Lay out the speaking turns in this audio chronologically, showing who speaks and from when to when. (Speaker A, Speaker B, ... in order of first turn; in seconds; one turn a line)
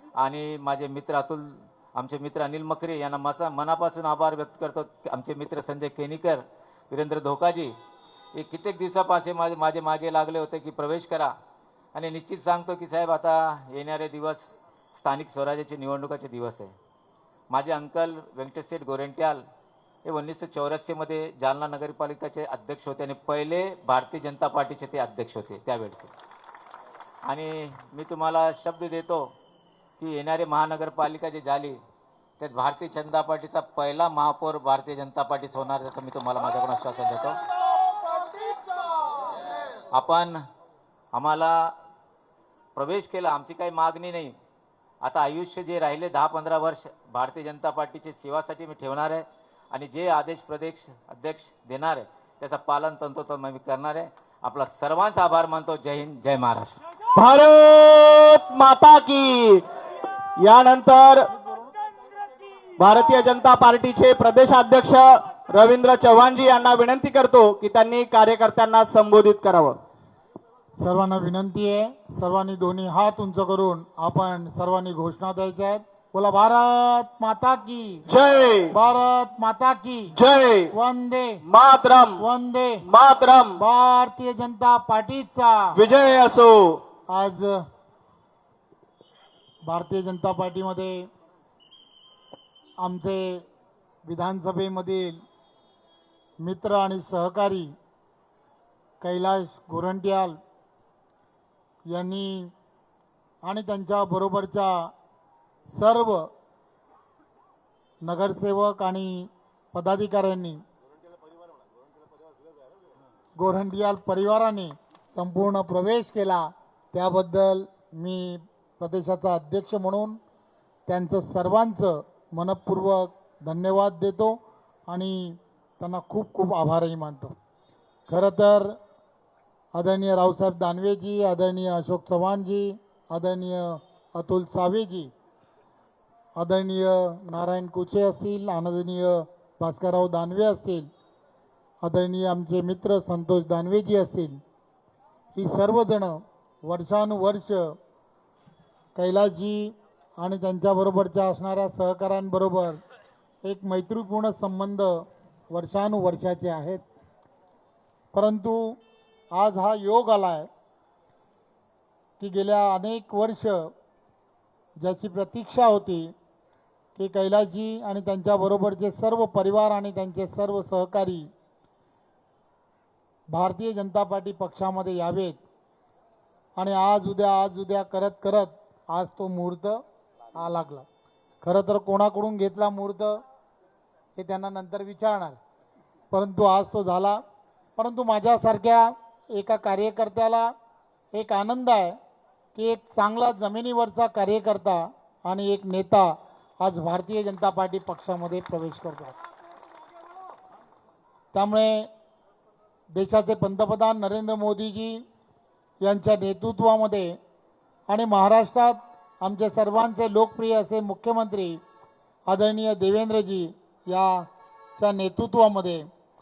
Speaker A: 0.2-7.7
Speaker A: 8.3-11.3
Speaker A: 11.9-16.7
Speaker A: 17.5-19.4
Speaker A: 20.1-26.1
Speaker A: 27.2-29.3
Speaker A: 30.0-31.8
Speaker A: 32.4-37.4
Speaker A: 39.9-40.4
Speaker A: 41.1-41.7
Speaker A: 42.8-44.3
Speaker A: 45.0-56.8
Speaker B: 57.1-59.6
Speaker B: 60.4-61.3
Speaker B: 62.8-69.8
Speaker C: 70.8-78.0
Speaker B: 78.1-78.8
Speaker C: 78.7-80.1
Speaker B: 80.1-80.7
Speaker C: 80.7-81.4
Speaker B: 81.5-82.2
Speaker C: 82.2-82.8
Speaker B: 82.8-83.6
Speaker C: 83.6-85.7
Speaker B: 85.8-86.8
Speaker C: 87.1-87.5
Speaker C: 89.7-91.0
Speaker C: 92.8-93.4
Speaker C: 94.1-95.2
Speaker C: 96.4-97.7
Speaker C: 99.0-100.4
Speaker C: 101.9-102.5
Speaker C: 103.5-104.9
Speaker C: 105.7-106.3
Speaker C: 108.0-110.6
Speaker C: 113.4-120.2
Speaker C: 120.9-124.4
Speaker C: 124.9-127.3
Speaker C: 128.1-128.8
Speaker C: 129.8-135.1
Speaker C: 136.4-140.9
Speaker C: 141.8-144.4
Speaker C: 145.3-147.7
Speaker C: 149.0-152.8
Speaker C: 153.4-155.0
Speaker C: 155.5-156.8
Speaker C: 158.1-158.8
Speaker C: 159.3-160.5
Speaker C: 162.2-163.7
Speaker C: 164.8-166.1
Speaker C: 167.0-171.3
Speaker C: 173.3-175.4
Speaker C: 176.6-179.8
Speaker C: 180.4-180.9
Speaker C: 181.4-183.2
Speaker C: 184.2-185.4
Speaker C: 186.1-187.2
Speaker C: 187.8-190.5
Speaker C: 191.1-192.0
Speaker C: 192.6-199.1
Speaker C: 201.3-201.9
Speaker C: 202.9-205.0
Speaker C: 205.8-207.2
Speaker C: 207.9-211.6
Speaker C: 212.3-214.2
Speaker C: 214.8-215.8